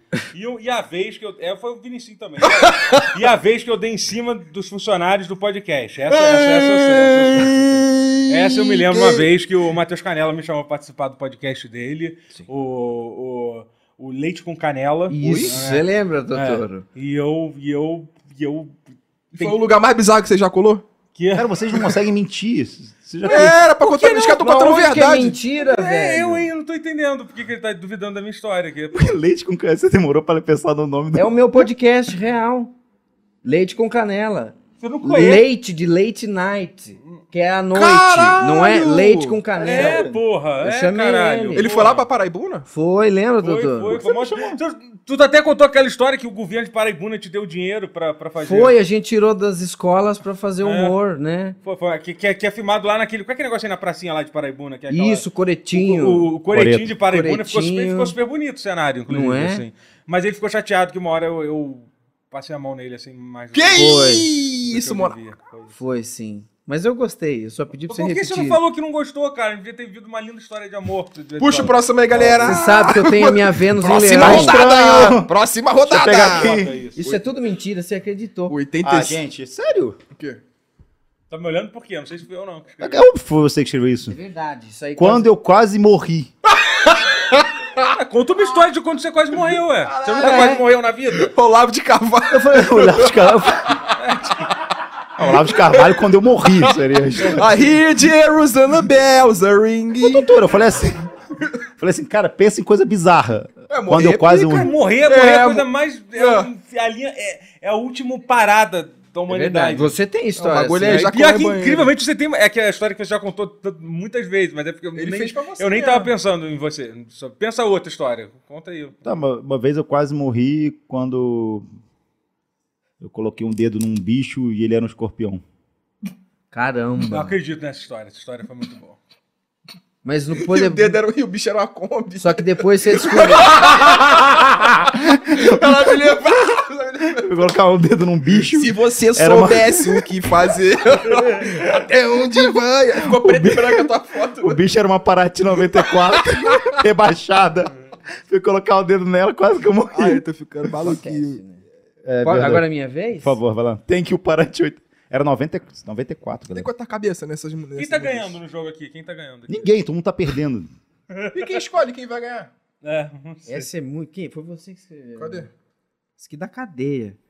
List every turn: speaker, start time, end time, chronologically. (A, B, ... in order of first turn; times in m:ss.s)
0:00.3-0:18.8 A
0:02.6-0:03.0 B
0:06.1-0:07.9 B
0:08.6-0:09.2 B
0:15.1-0:16.8 C
0:15.2-0:15.6 B
0:19.3-0:19.6 A
0:19.3-0:20.8 B
0:21.2-0:21.9 A
0:21.3-0:23.6 D
0:23.2-0:25.4 B
0:23.3-0:24.6 A
0:24.3-0:26.5 C
0:25.6-0:29.2 A
0:28.9-0:31.6 D
0:31.1-0:32.7 C
0:33.4-0:40.1 C
0:34.8-0:35.4 A
0:37.7-0:39.4 B
0:39.6-0:40.2 D
0:39.6-0:42.1 A
0:40.6-0:41.7 C
0:41.5-0:42.6 B
0:42.7-0:44.0 C
0:43.4-0:48.7 A
0:43.9-0:44.6 D
0:48.4-0:51.6 C
0:50.6-0:51.0 A
0:51.6-1:05.8 A
0:54.9-0:56.3 C
0:56.5-0:56.9 D
0:57.1-0:58.1 C
0:59.1-0:59.6 C
1:03.5-1:05.2 B
1:03.7-1:04.3 C
1:05.7-1:08.6 C
1:07.9-1:11.8 A
1:11.4-1:17.2 B
1:12.1-1:12.6 D
1:12.4-1:14.6 C
1:14.1-1:16.8 D
1:16.1-1:17.0 A
1:17.0-1:18.6 C
1:18.5-1:19.2 B
1:18.8-1:20.0 D
1:20.1-1:20.4 B
1:21.3-1:23.0 A
1:22.8-1:24.2 D
1:24.1-1:25.3 C
1:25.0-1:26.3 D
1:27.2-1:27.4 B
1:27.8-1:31.3 A
1:29.8-1:33.9 B
1:30.2-1:30.6 C
1:32.3-1:33.8 D
1:34.0-1:34.4 A
1:35.2-1:37.5 D
1:35.3-1:35.9 B
1:37.3-1:40.3 B
1:40.0-1:41.0 D
1:41.8-1:44.7 D
1:43.7-1:46.5 B
1:44.5-1:49.9 A
1:49.3-1:51.1 C
1:50.4-1:51.9 B
1:50.8-1:59.1 A
1:55.0-1:56.1 B
1:59.0-2:01.6 D
2:03.0-2:05.4 D
2:06.5-2:07.3 C
2:07.0-2:09.0 A
2:10.0-2:11.0 C
2:10.4-2:17.4 B
2:12.2-2:13.6 C
2:14.9-2:15.9 D
2:17.2-2:20.1 D
2:18.5-2:24.6 B
2:23.0-2:23.9 D
2:24.4-2:27.7 D
2:26.1-2:26.7 B
2:28.3-2:30.2 D
2:29.9-2:31.4 B
2:30.8-2:31.6 C
2:32.0-2:32.6 D
2:32.2-2:33.4 C
2:33.2-2:36.7 D
2:36.5-2:38.4 B
2:37.8-2:39.7 A
2:39.5-2:40.7 D
2:41.1-2:41.6 A
2:41.3-2:42.5 B
2:42.8-2:43.7 A
2:43.5-2:45.5 C
2:45.2-2:45.5 B
2:46.2-2:47.2 C